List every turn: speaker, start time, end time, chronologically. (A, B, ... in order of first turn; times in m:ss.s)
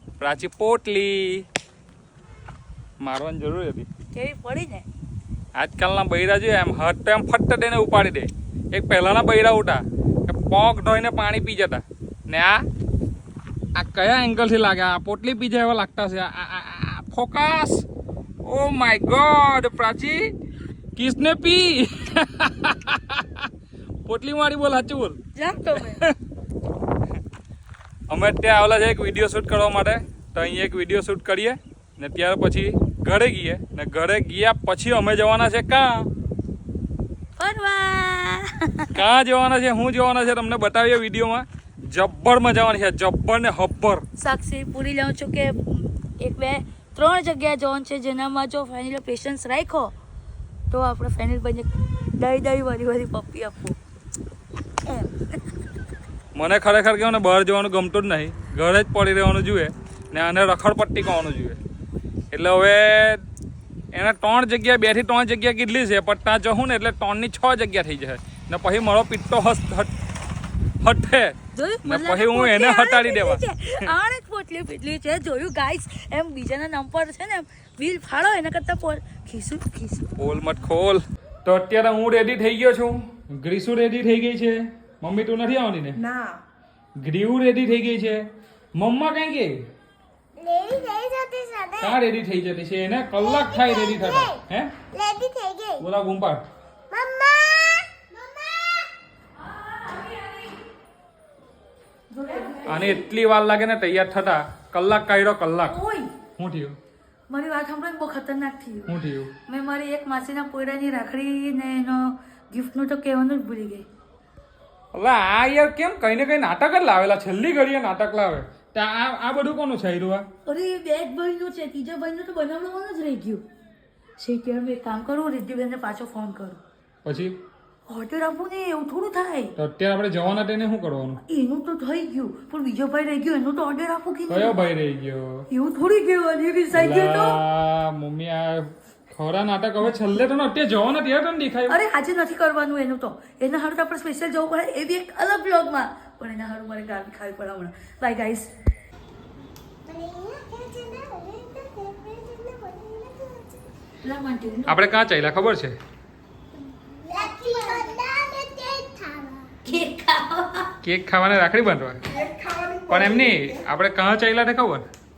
0:00.2-0:01.4 A
0:03.0-0:03.9 A
0:04.1-0:04.9 B
0:05.6-0:12.7 A
0:13.8-0:17.8 A
0:18.4-0:20.3 A
0:21.0-0:23.5 A
0:24.0-0:25.2 A
0:25.4-0:26.0 B
0:25.7-0:26.1 A
0:28.1-0:36.1 A
0:37.4-0:39.0 B
0:38.9-0:44.0 A
0:44.2-0:49.9 B
0:50.7-0:53.8 B
0:54.8-0:55.4 B
0:56.4-1:01.6 A
1:02.3-1:03.2 A
1:03.9-1:09.9 A
1:10.8-1:13.9 A
1:11.5-1:20.2 B
1:20.2-1:26.0 A
1:26.0-1:26.4 C
1:27.0-1:28.2 A
1:28.8-1:29.6 A
1:30.4-1:32.0 D
1:31.8-1:34.7 A
1:33.2-1:34.4 D
1:34.9-1:35.9 D
1:35.8-1:36.4 A
1:36.9-1:38.9 D
1:39.5-1:40.6 B
1:42.1-1:43.1 B
1:42.7-1:45.8 A
1:45.7-1:46.1 B
1:46.4-1:46.8 A
1:47.3-1:48.9 B
1:48.9-1:49.3 A
1:49.5-1:53.9 B
1:54.9-2:00.3 A
2:00.4-2:03.4 B
2:04.2-2:06.6 B
2:07.0-2:07.4 A
2:07.9-2:09.5 B
2:09.6-2:11.2 A
2:11.3-2:14.5 B
2:14.3-2:15.5 A
2:15.5-2:17.4 B
2:16.7-2:21.8 A
2:21.7-2:28.5 B
2:29.9-2:33.7 D
2:34.0-2:34.8 B
2:34.7-2:35.8 A
2:37.0-2:39.5 D
2:37.2-2:37.9 B
2:39.6-2:40.7 B
2:40.8-2:42.0 A
2:42.0-2:43.6 C
2:42.9-2:44.8 A